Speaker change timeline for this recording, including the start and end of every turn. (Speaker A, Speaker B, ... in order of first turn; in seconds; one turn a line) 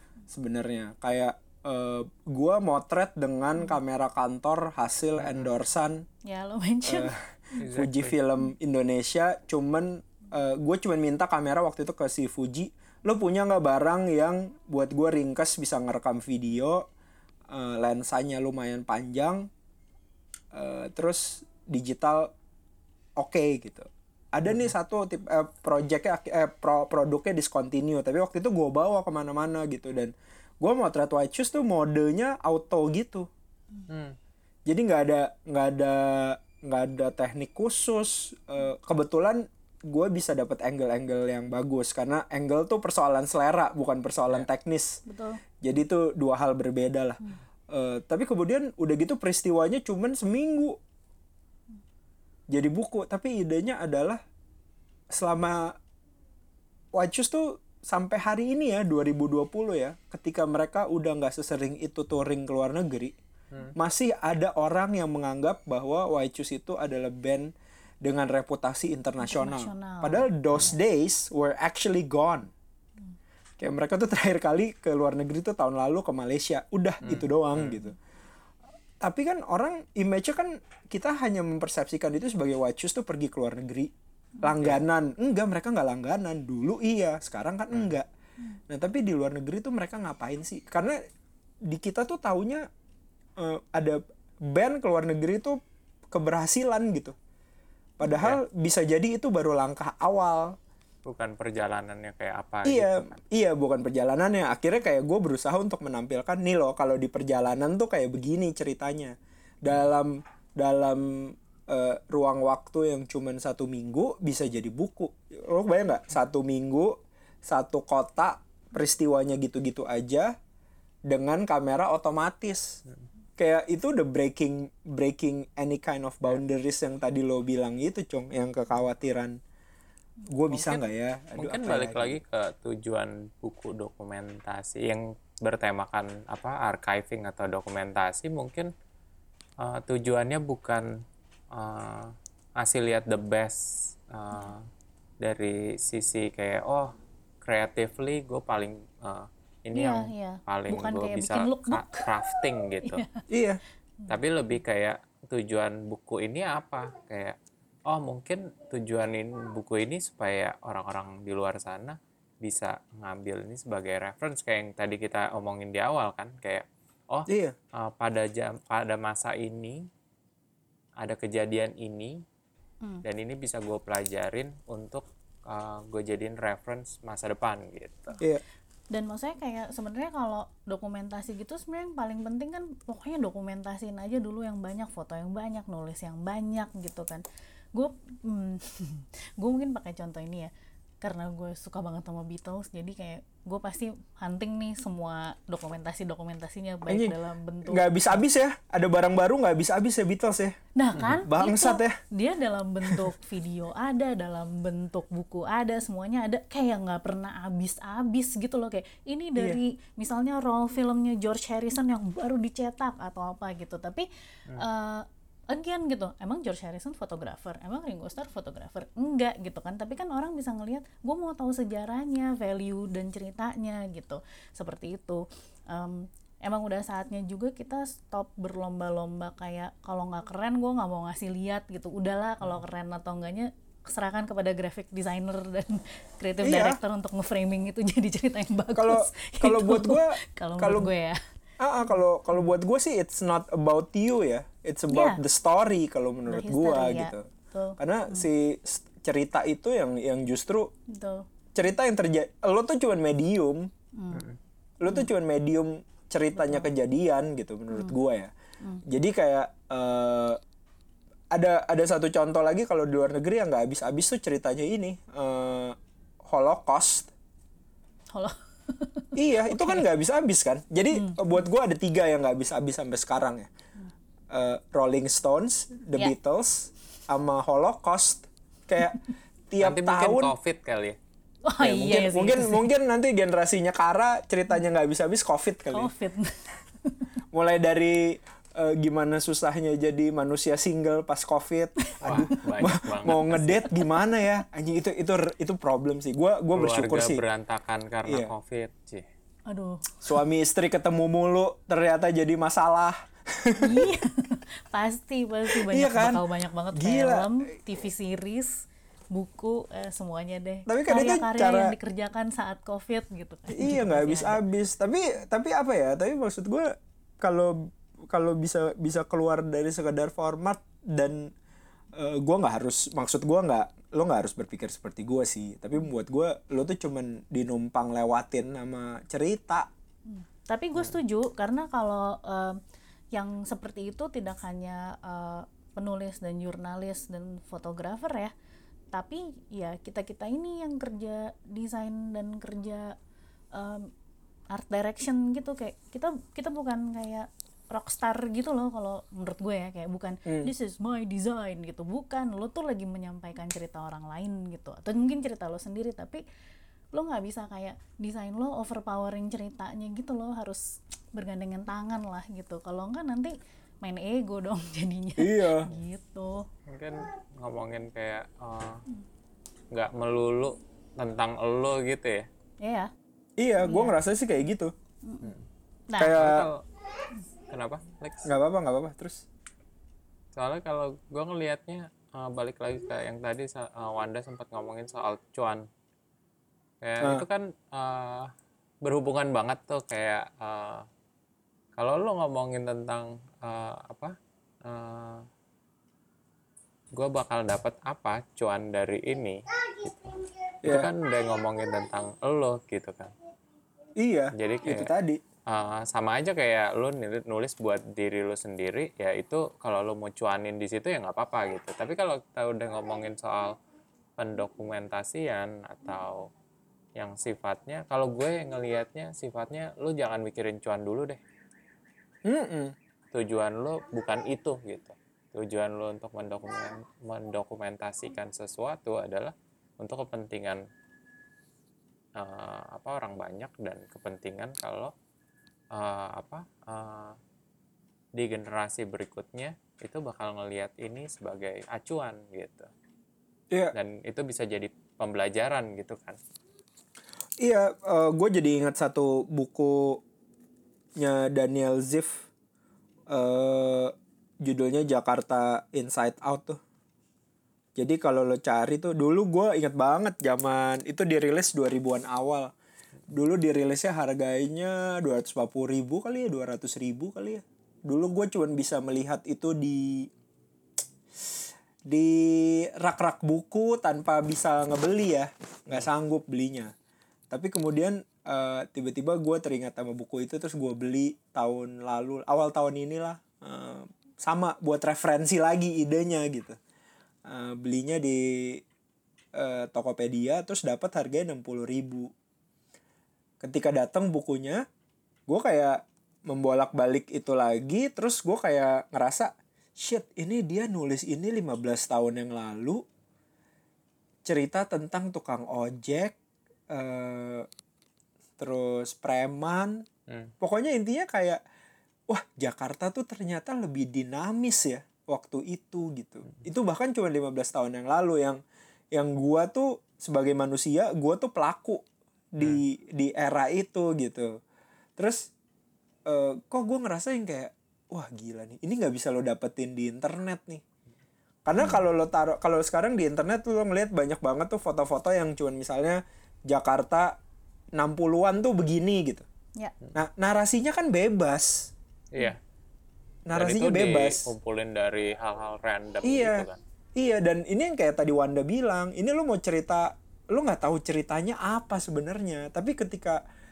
Speaker A: 0.3-6.0
Speaker B: 5.2-5.5
Speaker C: 6.3-7.1
Speaker A: 6.9-16.9
Speaker B: 7.6-8.2
Speaker A: 17.5-19.5
Speaker A: 20.5-22.3
Speaker A: 23.2-33.3
Speaker B: 24.5-24.7
Speaker B: 33.9-34.2
Speaker A: 34.7-45.0
Speaker C: 45.1-45.4
Speaker A: 45.6-50.8
Speaker A: 52.5-54.2
Speaker A: 55.1-55.8
Speaker A: 57.0-63.1
Speaker A: 63.8-67.5
Speaker A: 68.0-72.5
Speaker C: 69.2-70.3
Speaker A: 73.6-78.0
Speaker B: 77.0-77.8
Speaker A: 79.0-83.9
Speaker A: 84.4-88.1
Speaker A: 88.7-91.0
Speaker A: 91.7-92.7
Speaker A: 93.4-95.6
Speaker A: 96.1-97.2
Speaker A: 98.0-100.6
Speaker B: 98.1-98.4
Speaker B: 101.1-103.2
Speaker A: 102.7-120.3
Speaker A: 121.1-122.8
Speaker A: 123.4-129.4
Speaker A: 130.3-132.2
Speaker B: 130.5-138.7
Speaker B: 139.6-140.9
Speaker B: 141.5-143.6
Speaker B: 144.1-144.7
Speaker B: 145.2-153.0
Speaker C: 149.7-152.1
Speaker C: 152.8-153.2
Speaker A: 153.3-153.6
Speaker B: 154.1-157.4
Speaker B: 157.9-169.8
Speaker A: 167.3-167.6
Speaker B: 171.0-172.2
Speaker B: 173.1-178.2
Speaker C: 178.9-187.2
Speaker C: 187.8-190.5
Speaker C: 191.0-198.2
Speaker A: 196.9-197.1
Speaker A: 197.7-200.6
Speaker C: 200.8-241.2
Speaker A: 201.1-202.0
Speaker A: 202.8-203.1
Speaker A: 236.4-236.8
Speaker A: 238.8-240.9
Speaker A: 241.6-247.3
Speaker C: 244.9-245.2
Speaker C: 246.3-248.3
Speaker A: 247.8-250.7
Speaker C: 250.9-251.3
Speaker A: 251.6-253.7
Speaker C: 254.0-254.3
Speaker A: 254.8-258.3
Speaker C: 256.3-256.7
Speaker A: 258.9-260.4
Speaker A: 261.3-267.1
Speaker C: 268.1-269.9
Speaker A: 269.1-273.5
Speaker C: 270.9-271.4
Speaker A: 274.3-279.0
Speaker A: 279.5-280.3
Speaker B: 279.6-281.0
Speaker C: 281.5-282.6
Speaker A: 281.6-285.9
Speaker C: 285.7-287.1
Speaker A: 287.3-297.2
Speaker C: 291.8-292.2
Speaker B: 292.0-293.7
Speaker B: 296.6-299.1
Speaker A: 298.1-298.3
Speaker C: 299.5-300.0
Speaker A: 300.0-303.9
Speaker C: 303.6-314.4
Speaker A: 305.5-306.2
Speaker A: 306.8-307.3
Speaker A: 310.7-311.8
Speaker A: 313.5-321.3
Speaker A: 321.9-329.7
Speaker C: 330.1-332.6
Speaker C: 333.1-338.3
Speaker C: 338.9-343.0
Speaker C: 343.5-343.9
Speaker C: 344.5-356.2
Speaker A: 350.3-350.5
Speaker C: 356.9-360.6
Speaker C: 361.1-366.5
Speaker A: 365.2-365.7
Speaker B: 366.7-368.9
Speaker B: 369.7-372.3
Speaker C: 372.6-372.9
Speaker A: 373.4-374.7
Speaker C: 373.6-373.9
Speaker C: 375.1-375.3
Speaker C: 375.9-376.2
Speaker A: 376.0-376.5
Speaker B: 376.1-376.6
Speaker B: 377.5-378.3
Speaker A: 378.2-379.2
Speaker B: 380.4-385.7
Speaker B: 386.8-388.3
Speaker B: 388.8-390.9
Speaker B: 391.8-395.3
Speaker B: 396.9-403.1
Speaker A: 400.6-400.9
Speaker A: 404.0-405.2
Speaker B: 404.4-404.9
Speaker B: 405.5-413.5
Speaker B: 414.2-416.3
Speaker B: 417.0-421.2
Speaker A: 422.2-422.7
Speaker B: 423.1-430.6
Speaker B: 432.2-434.9
Speaker B: 435.7-437.2
Speaker B: 438.2-442.7
Speaker B: 443.7-446.2
Speaker A: 447.4-450.0
Speaker A: 451.0-452.3
Speaker A: 453.1-456.6
Speaker A: 457.8-462.5
Speaker A: 463.1-470.1
Speaker A: 471.9-476.7
Speaker A: 477.3-486.6
Speaker A: 487.3-488.6
Speaker A: 489.4-492.1
Speaker A: 493.4-494.6
Speaker A: 495.3-502.8
Speaker A: 504.2-506.2
Speaker A: 506.7-507.5
Speaker A: 508.4-509.9
Speaker B: 510.1-510.3
Speaker A: 510.4-511.4
Speaker A: 512.1-518.4
Speaker A: 518.9-524.4
Speaker A: 525.0-525.3
Speaker A: 526.1-530.6
Speaker A: 531.5-537.2
Speaker A: 537.8-539.3
Speaker A: 540.0-541.7
Speaker B: 542.1-542.4
Speaker A: 543.3-544.2
Speaker B: 543.4-546.6
Speaker A: 546.0-553.2